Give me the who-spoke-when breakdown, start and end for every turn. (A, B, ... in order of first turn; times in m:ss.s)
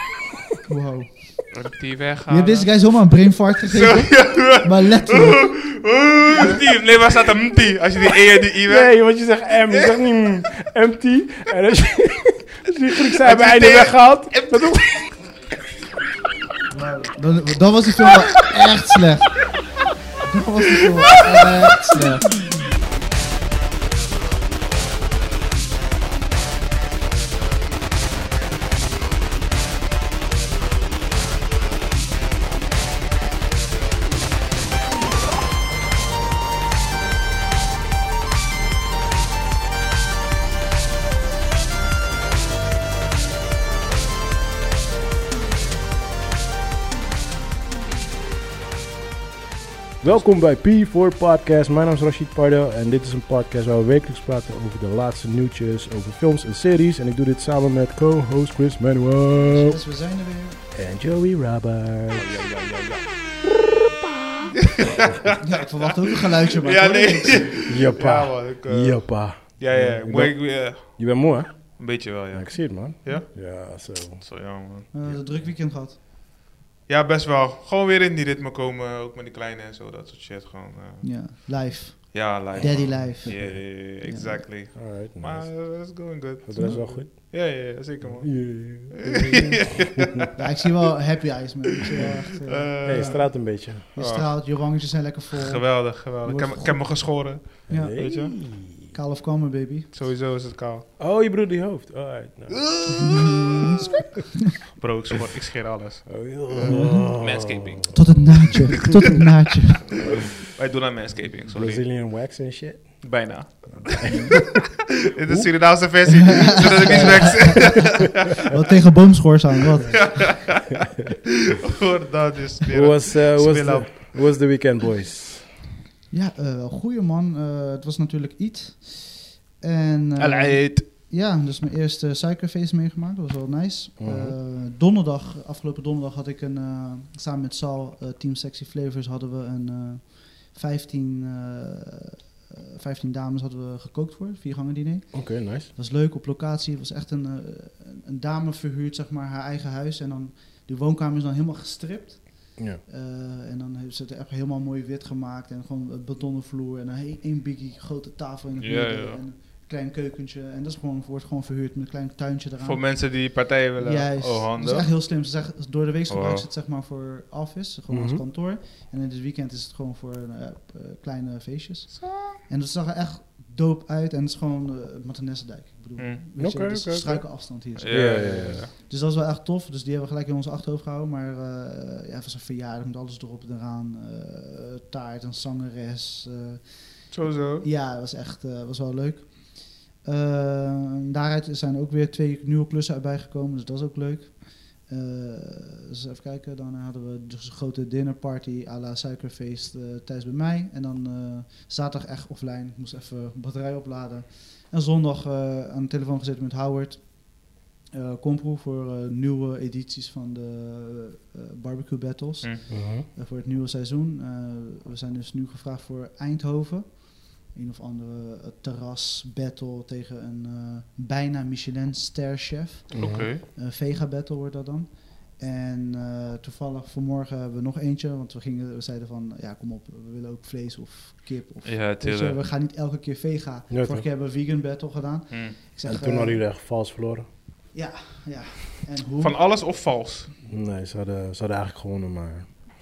0:00.7-0:01.5 A
0:01.5-0:03.0 B
0:02.3-0:05.8 A
0:03.6-0:09.9 B
0:08.7-0:14.8 C
0:13.2-0:15.0 B
0:16.7-0:19.4 A
0:20.2-0:22.4 A
0:20.8-0:21.5 B
0:50.0-0:59.8 C
0:59.4-1:00.6 A
1:00.7-1:03.1 C
1:04.1-1:04.7 C
1:04.7-1:15.4 B
1:05.4-1:07.6 A
1:07.7-1:14.2 C
1:14.9-1:16.0 A
1:16.9-1:30.3 B
1:21.0-1:24.5 A
1:23.4-1:23.6 C
1:24.7-1:25.7 C
1:26.4-1:30.0 C
1:26.6-1:26.8 A
1:29.3-1:29.6 A
1:30.2-1:37.0 A
1:31.8-1:34.4 B
1:32.8-1:33.8 C
1:35.3-1:38.3 B
1:36.3-1:36.5 C
1:37.7-1:38.9 C
1:37.7-1:39.9 A
1:39.9-1:40.8 B
1:41.0-1:42.7 C
1:42.5-1:44.0 B
1:42.9-1:44.1 A
1:44.7-1:48.4 B
1:46.1-1:48.9 C
1:46.6-1:47.2 A
1:47.9-1:50.0 A
1:50.0-1:50.2 C
1:50.4-1:51.9 B
1:51.4-1:55.5 C
1:53.0-1:58.1 B
1:54.0-1:54.4 A
1:56.0-2:00.5 A
1:56.8-1:57.7 C
1:59.9-2:04.4 B
2:02.7-2:05.5 C
2:06.1-2:43.2 A
2:10.2-2:10.9 B
2:14.0-2:14.4 C
2:25.1-2:25.7 C
2:38.6-2:39.2 B
2:42.6-2:44.9 B
2:43.8-3:56.4 A
2:46.1-2:46.4 B
2:47.9-2:48.2 C
2:51.9-2:52.4 B
2:56.4-2:58.7 C
2:57.8-2:58.7 B
3:07.1-3:07.6 B
3:32.7-3:33.0 C
3:42.9-3:43.3 C
3:43.0-3:43.4 B
3:51.6-3:52.4 B
3:53.7-3:54.0 C
3:55.8-3:57.3 C
3:57.7-3:59.4 A
3:59.2-4:00.3 B
4:00.5-4:02.5 C